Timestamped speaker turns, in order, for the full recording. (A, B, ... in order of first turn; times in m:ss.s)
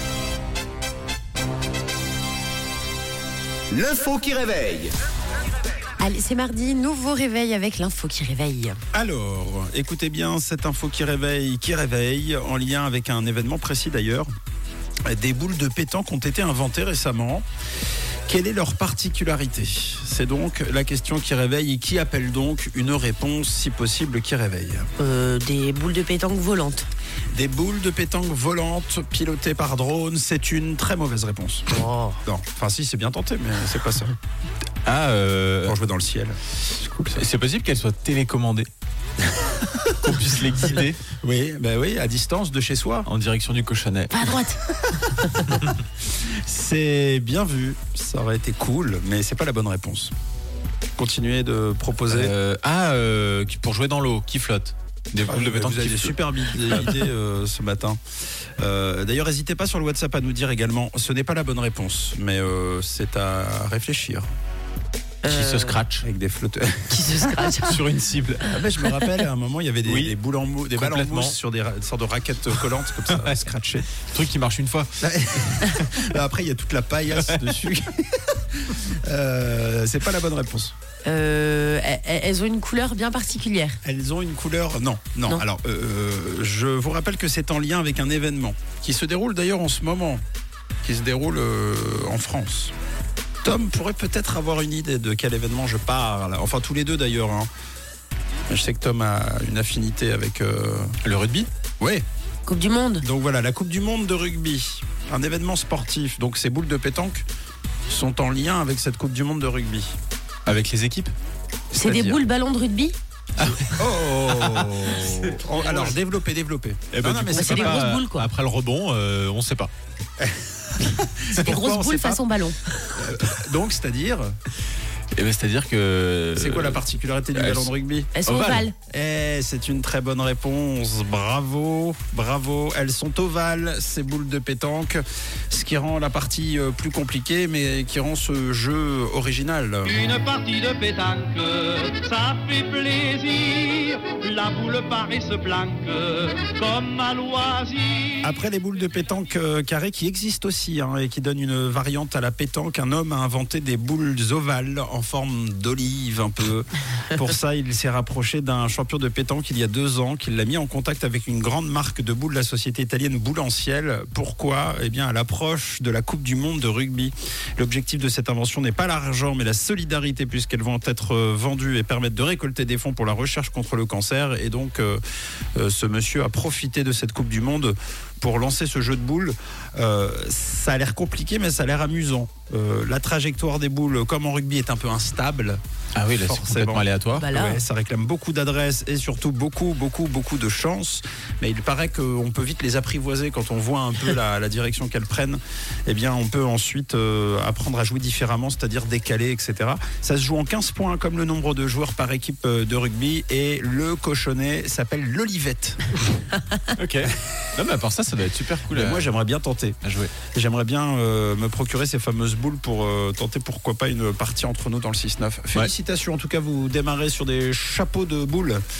0:03.7-0:04.9 A
0:06.0-0:08.8 B
0:08.9-0:14.3 C
0:15.1-0:17.4 C
0:18.3-0:24.9 C
0:25.0-0:26.9 B
0:27.3-0:34.1 C
0:31.7-0:32.2 B
0:34.8-0:35.8 D
0:35.6-0:37.2 C
0:37.1-0:38.7 D
0:39.4-0:39.9 C
0:40.0-0:41.0 D
0:41.1-0:43.1 C
0:43.0-0:44.5 D
0:44.1-0:45.5 B
0:46.0-0:50.1 C
0:51.0-0:52.3 C
0:52.1-0:57.0 D
0:55.2-0:58.0 C
0:58.6-1:04.3 C
1:05.2-1:05.8 B
1:05.2-1:06.0 D
1:06.0-1:07.3 C
1:06.9-1:07.8 B
1:07.5-1:08.6 D
1:08.4-1:13.9 C
1:09.8-1:10.1 D
1:10.7-1:11.4 D
1:13.0-1:13.4 D
1:13.9-1:16.1 D
1:15.0-1:20.7 C
1:17.1-1:17.6 D
1:21.0-1:23.8 B
1:23.8-1:30.2 C
1:30.8-1:32.7 C
1:33.4-1:37.5 C
1:38.5-1:40.9 C
1:41.0-1:41.5 D
1:41.8-1:42.0 C
1:42.5-1:43.0 B
1:43.0-1:47.2 C
1:47.9-1:49.9 C
1:50.4-1:51.1 D
1:51.7-1:52.2 C
1:51.7-1:53.0 B
1:53.4-1:56.0 D
1:53.7-1:57.8 C
1:56.9-1:59.7 D
1:57.3-1:58.3 B
2:00.2-2:02.2 C
2:01.4-2:02.9 B
2:02.9-2:04.3 C
2:05.1-2:07.7 D
2:06.4-2:08.1 C
2:08.1-2:08.7 B
2:08.2-2:08.7 D
2:08.9-2:20.0 C
2:19.8-2:28.2 A
2:28.2-2:55.0 C
2:55.6-3:05.6 C
3:05.9-3:07.3 D
3:06.1-3:25.9 C
3:07.1-3:07.6 B
3:26.8-3:29.1 D
3:28.7-3:29.8 C
3:29.8-3:30.1 D
3:30.3-3:38.6 C